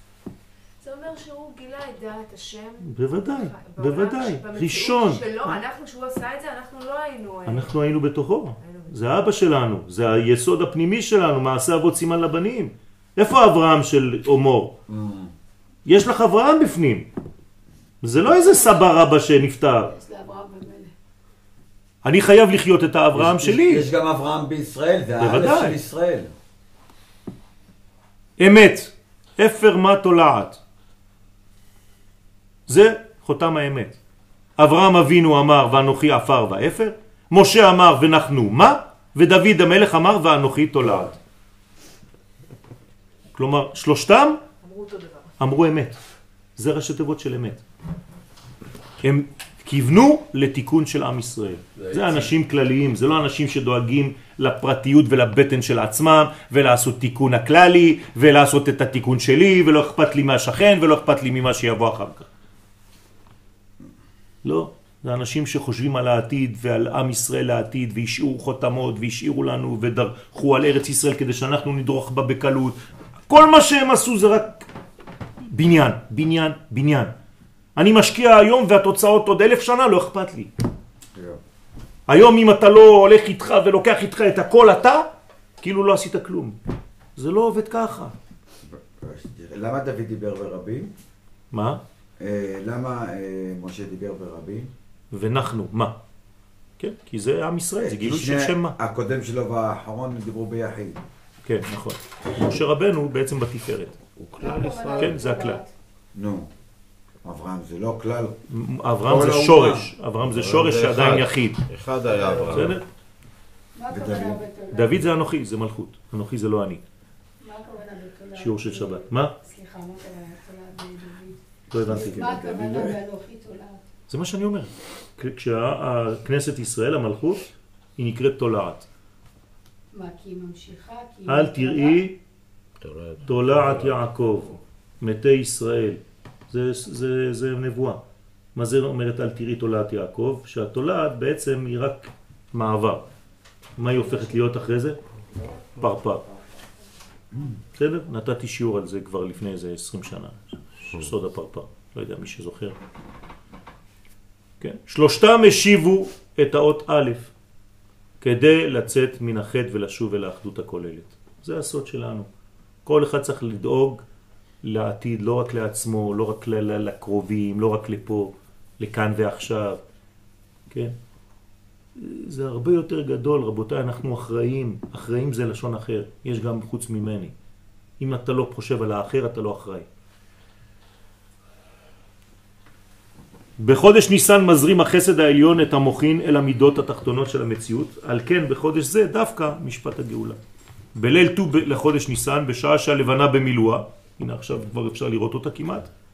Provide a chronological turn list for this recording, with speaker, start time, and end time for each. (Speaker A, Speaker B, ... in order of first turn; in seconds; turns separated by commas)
Speaker A: 0.8-7.8, Speaker B: 2.8-5.6, Speaker B: 7.5-14.7, Speaker A: 8.6-9.0, Speaker C: 14.9-15.3, Speaker B: 15.8-17.1, Speaker B: 18.0-19.9, Speaker D: 18.3-18.7, Speaker D: 19.9-20.9, Speaker B: 22.0-23.9, Speaker C: 23.1-26.3, Speaker B: 25.2-25.8, Speaker B: 28.4-30.6, Speaker B: 32.7-34.0, Speaker B: 34.6-41.2, Speaker B: 43.3-44.4, Speaker A: 44.6-45.3, Speaker B: 45.4-46.0, Speaker B: 46.6-47.6, Speaker B: 49.0-62.3, Speaker E: 51.8-52.3, Speaker B: 64.4-72.8, Speaker B: 73.3-74.7, Speaker B: 75.4-77.1, Speaker B: 77.8-80.5, Speaker C: 81.1-81.4, Speaker B: 82.1-85.1, Speaker B: 85.6-86.5, Speaker B: 87.2-88.1, Speaker C: 88.6-90.9, Speaker B: 91.5-91.8, Speaker C: 92.2-94.7, Speaker B: 95.1-95.9, Speaker B: 96.8-98.7, Speaker C: 97.8-101.0, Speaker B: 101.4-104.0, Speaker C: 104.3-104.7, Speaker D: 104.4-105.7, Speaker B: 104.9-105.6, Speaker C: 106.1-106.5, Speaker C: 107.2-108.4, Speaker B: 108.5-111.6, Speaker C: 109.0-109.9, Speaker E: 110.8-111.2, Speaker E: 111.8-112.7, Speaker C: 112.0-112.7, Speaker B: 112.4-112.8, Speaker D: 113.7-115.0, Speaker C: 113.9-114.4, Speaker B: 114.7-116.8, Speaker D: 117.4-123.9, Speaker B: 118.3-119.3, Speaker B: 121.7-122.6, Speaker C: 121.8-123.0, Speaker B: 124.1-128.9, Speaker D: 129.9-132.0, Speaker B: 131.2-132.2, Speaker B: 133.2-138.0, Speaker E: 133.6-134.0, Speaker B: 138.6-143.0, Speaker B: 143.8-145.0, Speaker B: 145.7-146.2, Speaker B: 147.8-152.8, Speaker B: 154.6-157.3, Speaker B: 158.2-162.3, Speaker B: 162.8-164.0, Speaker B: 164.6-169.8, Speaker B: 171.9-177.3, Speaker B: 178.0-179.9, Speaker B: 183.6-190.4, Speaker B: 190.9-195.9